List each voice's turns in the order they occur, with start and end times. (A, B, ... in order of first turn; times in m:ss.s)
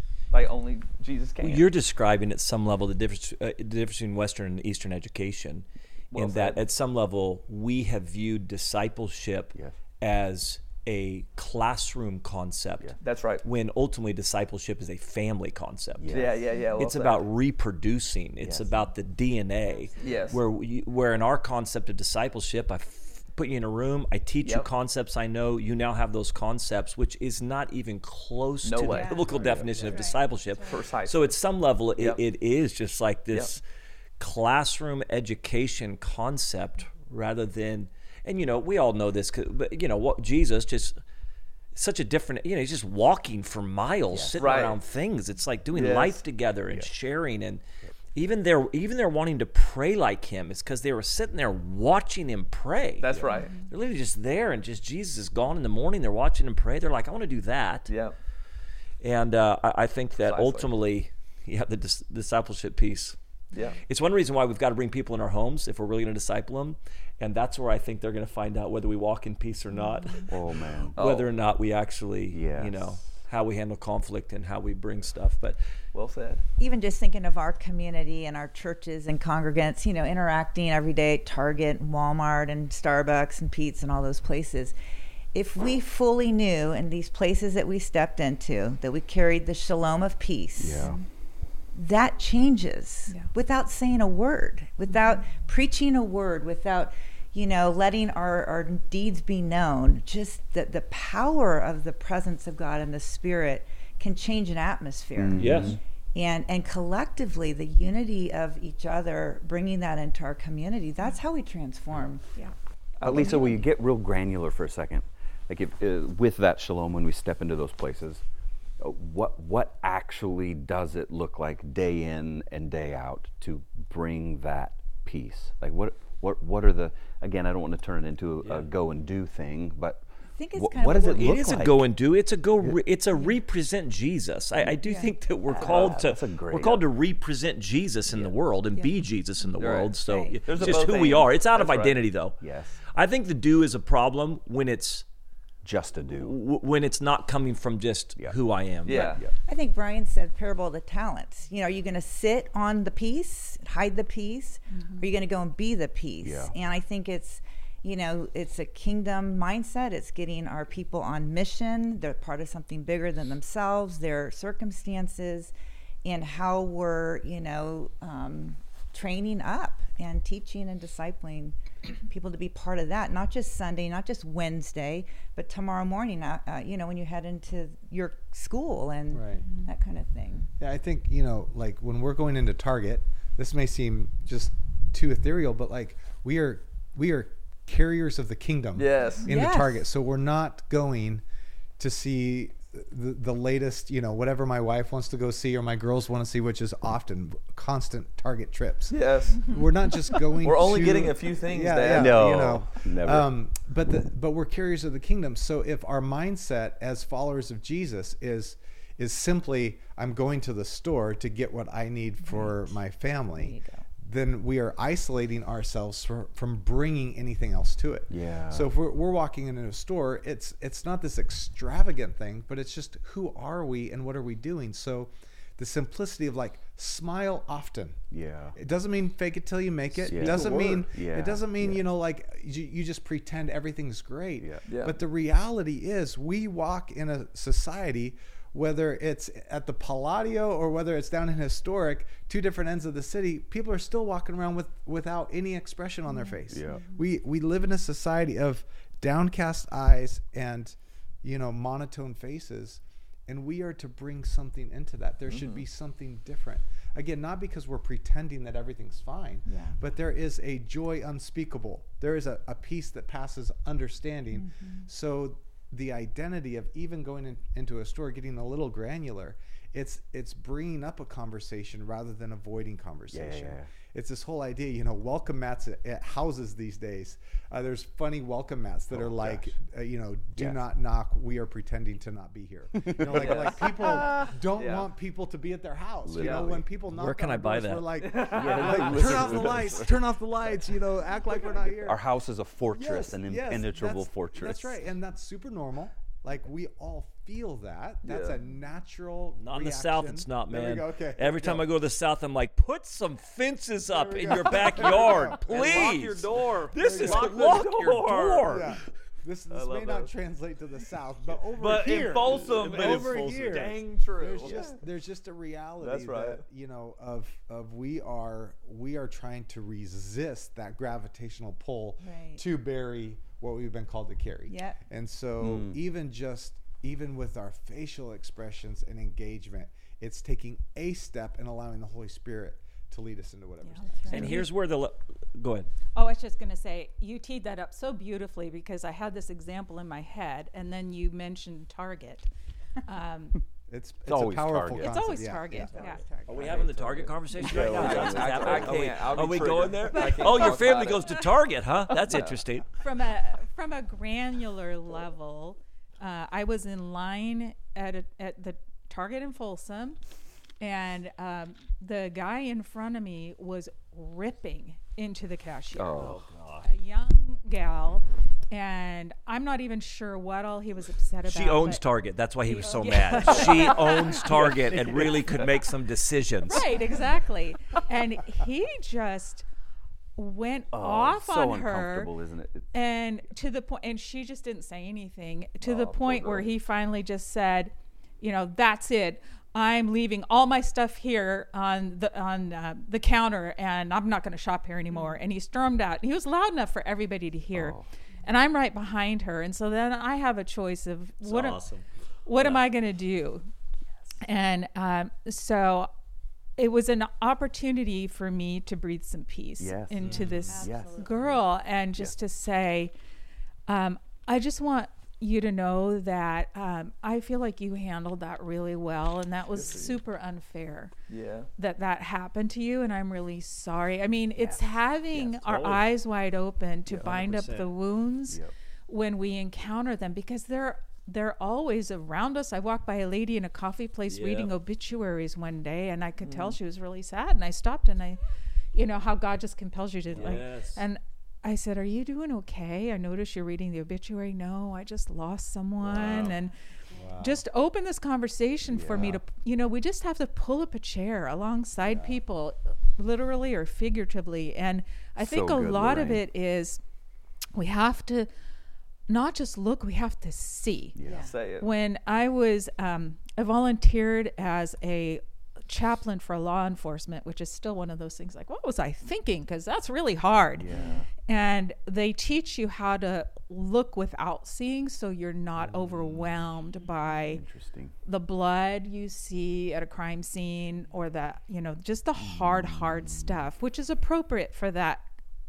0:00.3-0:01.7 A
0:01.4-0:33.6 B
0:06.1-0:06.6 A
0:13.0-0:13.4 A
0:16.0-0:16.4 C
0:16.1-0:17.3 A
0:18.4-0:18.8 C
0:20.0-0:20.4 A
0:20.0-0:20.3 D
0:24.4-0:24.7 A
0:28.6-0:29.2 A
0:28.8-0:30.8 D
0:29.4-0:29.7 C
0:29.4-0:29.9 E
0:30.6-0:31.3 A
0:31.9-0:32.2 A
0:34.2-0:41.0 B
0:41.7-0:47.6 B
0:44.1-0:44.6 C
0:44.4-0:44.8 A
0:45.7-0:46.2 A
0:48.1-0:57.9 B
0:53.0-0:53.5 A
0:57.9-0:58.1 A
0:59.0-1:03.2 B
1:00.2-1:00.7 A
1:03.8-1:10.4 B
1:09.8-1:10.2 F
1:10.3-1:11.0 C
1:10.9-1:15.6 B
1:11.0-1:11.3 A
1:12.3-1:12.9 C
1:15.9-1:16.4 A
1:16.6-1:24.7 D
1:25.3-1:30.9 D
1:30.6-1:31.0 C
1:30.7-1:31.0 F
1:31.7-1:52.4 D
1:45.2-1:45.8 C
1:45.4-1:45.8 B
1:53.0-1:53.4 A
1:53.0-1:58.2 C
1:53.1-1:53.6 D
1:58.8-2:10.0 C
2:10.3-2:11.5 D
2:10.5-2:11.8 C
2:11.1-2:25.0 B
2:14.6-2:15.9 D
2:15.6-2:16.9 C
2:18.1-2:18.3 C
2:19.6-2:22.0 A
2:20.0-2:20.8 D
2:22.4-2:22.8 C
2:25.6-2:26.4 C
2:26.1-2:29.1 B
2:28.2-2:29.3 C
2:28.8-2:29.2 A
2:29.4-2:45.5 D
2:34.8-2:35.0 F
2:36.2-2:36.5 C
2:46.0-2:51.6 D
2:52.1-3:00.5 D
2:59.1-2:59.4 E
2:59.4-2:59.7 F
3:00.6-3:11.2 E
3:08.7-3:09.2 A
3:09.3-3:09.8 D
3:11.8-4:52.0 E
3:18.9-3:19.5 A
3:20.3-3:22.2 A
3:21.9-3:23.3 C
3:32.2-3:32.6 D
3:33.3-3:33.8 D
3:38.1-3:38.7 C
3:48.1-3:48.6 C
3:50.0-3:50.8 A
3:50.0-3:51.8 C
3:54.7-3:55.0 A
4:06.5-4:06.8 C
4:15.3-4:15.6 A
4:19.5-4:19.8 D
4:24.3-4:24.8 D
4:33.1-4:33.7 C
4:38.9-4:39.5 C
4:40.4-4:40.6 C
4:42.8-4:43.3 C
4:43.1-4:44.0 A
4:44.5-4:44.8 A
4:46.0-4:46.6 C
4:46.2-4:46.5 A
4:46.9-4:48.0 B
4:48.0-4:49.5 A
4:48.3-4:49.9 C
4:51.8-4:54.7 C
4:52.7-5:01.7 E
4:58.0-4:58.4 A
4:59.4-5:08.7 B
5:03.9-5:06.2 E
5:04.5-5:08.6 A
5:06.7-5:07.7 E
5:08.4-5:34.3 E
5:09.5-5:10.1 A
5:11.6-5:14.8 A
5:11.7-5:13.7 B
5:15.8-5:16.4 A
5:22.0-5:22.4 D
5:24.5-5:24.8 D
5:25.4-5:25.8 C
5:33.6-5:34.5 F
5:34.0-5:34.3 D
5:34.1-5:35.7 B
5:35.9-5:42.3 F
5:42.8-5:43.4 F
5:43.7-5:45.8 E
5:44.1-5:45.0 C
5:44.7-5:46.5 F
5:45.8-5:46.7 D
5:46.2-5:52.7 B
5:47.3-5:48.9 C
5:47.5-5:51.2 A
5:49.8-5:51.0 F
5:52.0-5:52.4 A
5:52.8-6:00.0 F
6:00.6-6:06.0 F
6:05.8-6:06.2 C
6:05.9-6:06.6 B
6:06.6-6:11.8 F
6:11.2-6:16.8 B
6:12.4-6:14.4 F
6:14.2-6:15.4 C
6:16.4-6:19.4 F
6:20.2-6:22.1 F
6:20.7-6:22.7 C
6:22.7-6:41.6 F
6:25.6-6:26.3 C
6:37.5-6:37.9 C
6:41.2-6:41.8 B
6:42.2-6:43.5 F
6:42.4-6:42.6 B
6:44.2-6:45.9 F
6:46.6-6:52.9 F
6:49.6-6:51.4 C
6:50.4-6:51.4 D
6:53.7-7:00.9 F
6:59.5-7:00.0 A
7:01.1-7:01.5 A
7:01.6-7:18.2 F
7:04.4-7:04.7 C
7:05.1-7:05.9 B
7:06.9-7:07.7 B
7:14.0-7:14.5 B
7:18.7-7:26.5 F
7:20.1-7:20.8 B
7:26.0-7:26.3 B
7:26.9-7:27.4 E
7:27.2-7:36.8 F
7:28.7-7:29.2 C
7:31.8-7:32.2 E
7:35.2-7:36.2 C
7:37.5-7:38.3 F
7:39.1-7:41.0 F
7:41.0-7:41.3 C
7:41.0-7:41.3 D
7:41.2-7:41.7 A
7:41.5-7:57.4 F
7:50.6-7:51.1 C
7:57.2-7:57.9 C
7:58.0-8:05.0 F
8:02.3-8:03.2 C